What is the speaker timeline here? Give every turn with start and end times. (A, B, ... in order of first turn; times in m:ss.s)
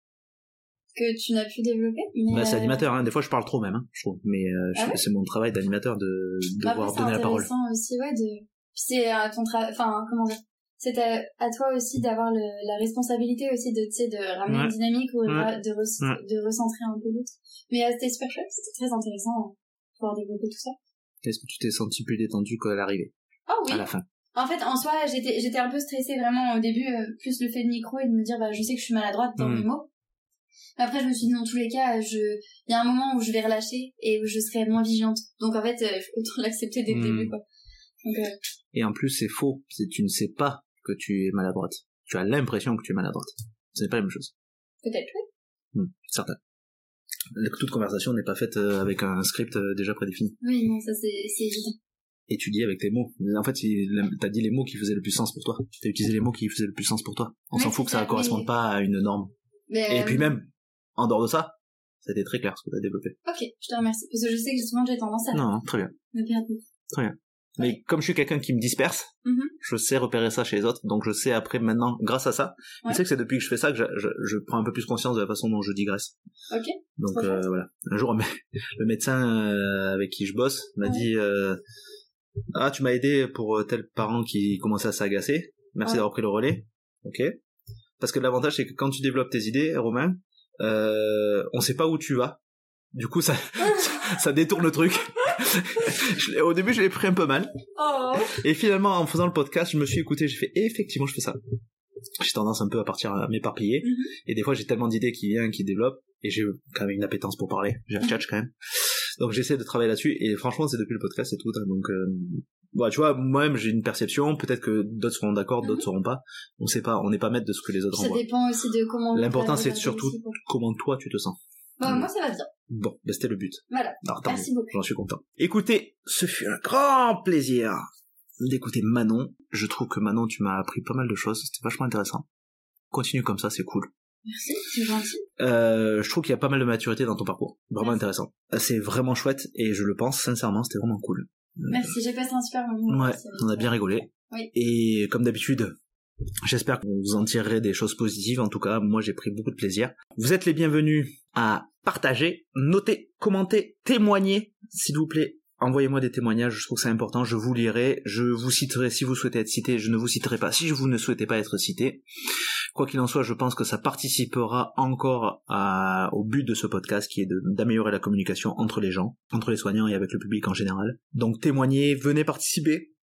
0:01.0-0:02.8 A
0:02.3-0:07.5 B
0:04.8-0:05.0 A
0:06.6-0:20.8 A
0:14.5-0:14.8 B
0:21.2-0:23.1 B
0:23.5-0:29.9 A
0:23.7-0:24.0 B
0:29.4-0:29.7 B
0:30.8-0:37.4 A
0:36.9-0:37.3 B
0:38.0-0:38.3 A
0:38.7-0:44.3 B
0:44.8-0:45.3 A
0:45.7-0:46.4 B
0:47.3-0:50.4 B
0:50.4-0:51.8 A
0:52.3-0:59.3 B
0:57.5-0:58.5 A
0:59.7-1:00.3 A
0:59.9-1:03.2 B
1:03.2-1:05.4 A
1:05.3-1:05.9 B
1:06.1-1:06.6 A
1:06.9-1:16.2 B
1:09.2-1:09.5 A
1:16.5-1:17.4 A
1:17.0-1:21.6 B
1:22.5-1:27.4 B
1:28.0-1:32.4 B
1:32.9-1:37.5 B
1:37.8-1:38.4 A
1:38.3-1:41.4 B
1:42.2-1:58.2 B
1:43.8-1:44.1 A
1:57.9-2:00.4 A
1:59.1-2:02.1 B
2:01.8-2:02.5 A
2:02.7-2:07.8 B
2:03.7-2:04.7 A
2:08.4-2:12.3 B
2:12.9-2:13.9 B
2:14.2-2:15.3 A
2:15.4-2:21.9 B
2:21.7-2:23.7 A
2:22.9-2:25.8 B
2:26.4-2:42.0 B
2:42.7-2:52.9 B